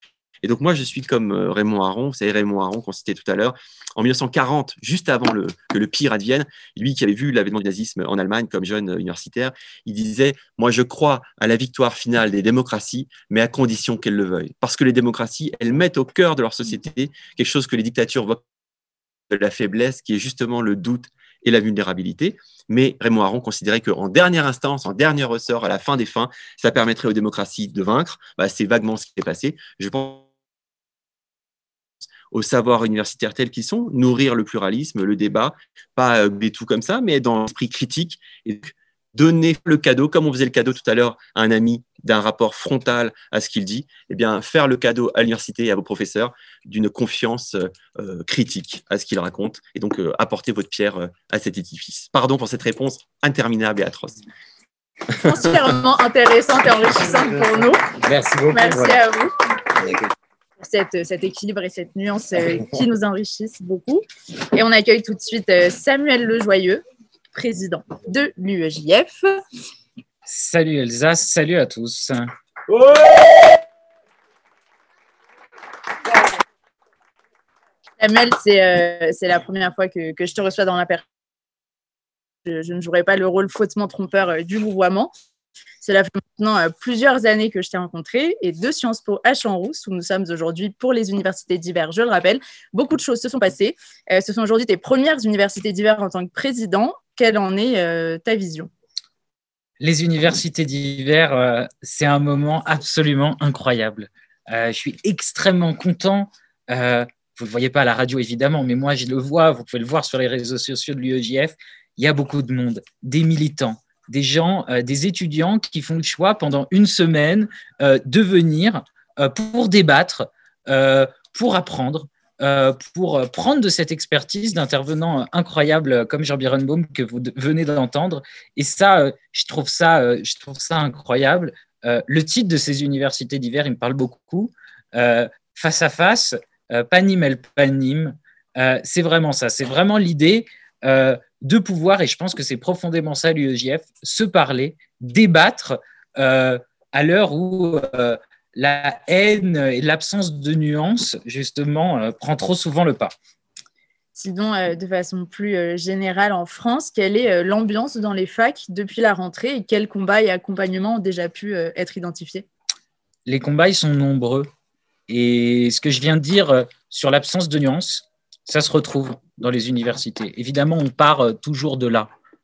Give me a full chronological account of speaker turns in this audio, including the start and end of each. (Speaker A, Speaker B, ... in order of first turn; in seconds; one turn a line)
Speaker A: 0.4-18.4
Speaker A: 19.3-30.2
Speaker A: 32.3-54.2
Speaker B: 55.2-57.9
Speaker C: 58.0-59.0
Speaker B: 58.5-59.3
Speaker B: 60.6-69.4
Speaker C: 70.3-72.3
Speaker B: 78.0-81.0
Speaker B: 82.5-85.1
Speaker B: 85.8-98.7
Speaker C: 99.8-153.1
Speaker B: 154.2-162.5
Speaker C: 163.3-164.5
Speaker C: 165.1-172.1